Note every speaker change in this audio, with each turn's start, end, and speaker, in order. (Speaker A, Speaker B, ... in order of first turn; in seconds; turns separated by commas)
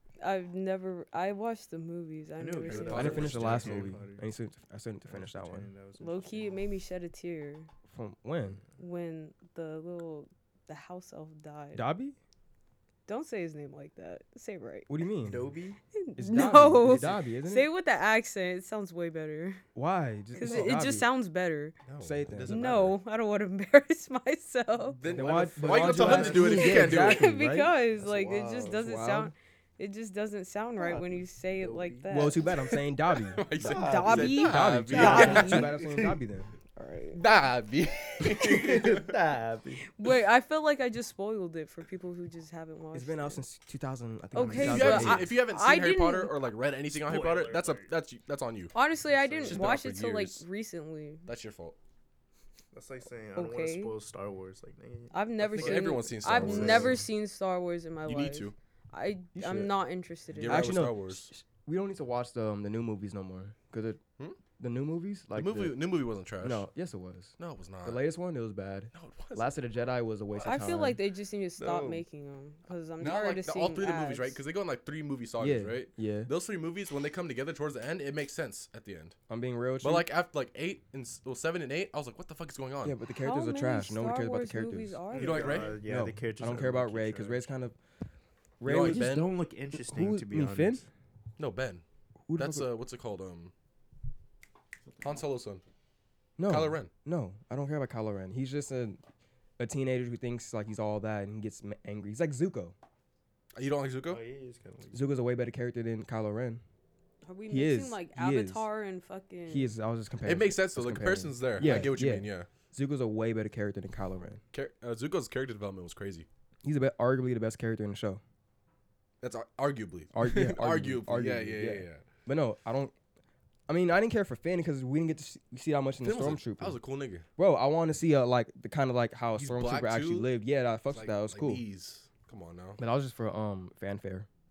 Speaker A: 0.2-3.5, Speaker B: 2.4-4.2, Speaker C: 2.7-3.9, Speaker D: 2.9-5.7, Speaker B: 5.1-6.6, Speaker A: 6.0-7.7, Speaker D: 7.9-8.6, Speaker A: 8.8-11.9, Speaker D: 11.7-12.2, Speaker A: 13.1-14.9, Speaker D: 14.9-15.5, Speaker B: 15.2-15.8, Speaker A: 15.9-19.6, Speaker D: 16.2-17.7, Speaker C: 16.8-17.2, Speaker D: 19.8-21.1, Speaker A: 20.4-21.8, Speaker C: 21.9-23.0, Speaker D: 22.0-22.6, Speaker A: 22.5-25.0, Speaker C: 25.0-27.3, Speaker B: 25.0-27.1, Speaker D: 25.1-29.3, Speaker A: 26.3-32.5, Speaker B: 28.0-28.8, Speaker B: 30.8-32.4, Speaker D: 32.1-36.5, Speaker C: 32.6-35.8, Speaker B: 33.6-34.4, Speaker A: 33.6-35.8, Speaker B: 35.0-36.2, Speaker A: 36.8-37.2, Speaker C: 37.1-39.1, Speaker B: 38.3-39.8, Speaker A: 39.9-43.4, Speaker D: 42.9-45.3, Speaker A: 44.3-46.4, Speaker C: 44.5-48.8, Speaker B: 46.9-47.9, Speaker A: 48.7-51.3, Speaker B: 49.0-49.8, Speaker C: 49.4-50.5, Speaker C: 51.3-51.8, Speaker B: 52.7-57.0, Speaker A: 53.4-54.0, Speaker A: 55.1-60.8, Speaker C: 55.5-57.0, Speaker C: 58.1-58.5, Speaker D: 59.4-59.8, Speaker C: 60.3-61.3, Speaker D: 60.5-64.0, Speaker D: 64.6-65.8, Speaker C: 65.3-66.7, Speaker D: 66.4-71.0, Speaker C: 67.4-68.0, Speaker C: 68.9-69.6, Speaker A: 70.4-74.4, Speaker B: 70.5-70.8, Speaker B: 71.6-72.0, Speaker C: 73.0-79.2, Speaker D: 75.4-76.3, Speaker D: 79.3-80.1, Speaker C: 79.8-83.0, Speaker D: 82.8-85.0, Speaker A: 83.2-85.6, Speaker B: 85.1-87.5, Speaker C: 85.2-85.8, Speaker D: 85.8-87.8, Speaker D: 88.6-89.2, Speaker C: 88.7-89.3, Speaker B: 88.7-90.9, Speaker D: 89.7-90.9, Speaker C: 91.4-91.8, Speaker D: 92.3-92.7, Speaker C: 92.4-93.5, Speaker C: 95.0-95.6, Speaker D: 96.4-99.0, Speaker C: 96.5-96.9, Speaker D: 99.6-102.8, Speaker C: 103.5-104.2, Speaker B: 104.1-105.1, Speaker D: 104.9-106.6, Speaker A: 107.2-109.7, Speaker D: 107.5-108.7, Speaker D: 109.5-114.4, Speaker C: 110.2-112.5, Speaker C: 114.5-116.3, Speaker D: 116.6-118.2, Speaker C: 119.2-122.0, Speaker D: 120.1-122.9, Speaker D: 123.7-126.8, Speaker C: 126.0-127.3, Speaker D: 127.4-131.6, Speaker C: 129.4-130.3, Speaker C: 130.9-132.8, Speaker D: 132.8-134.3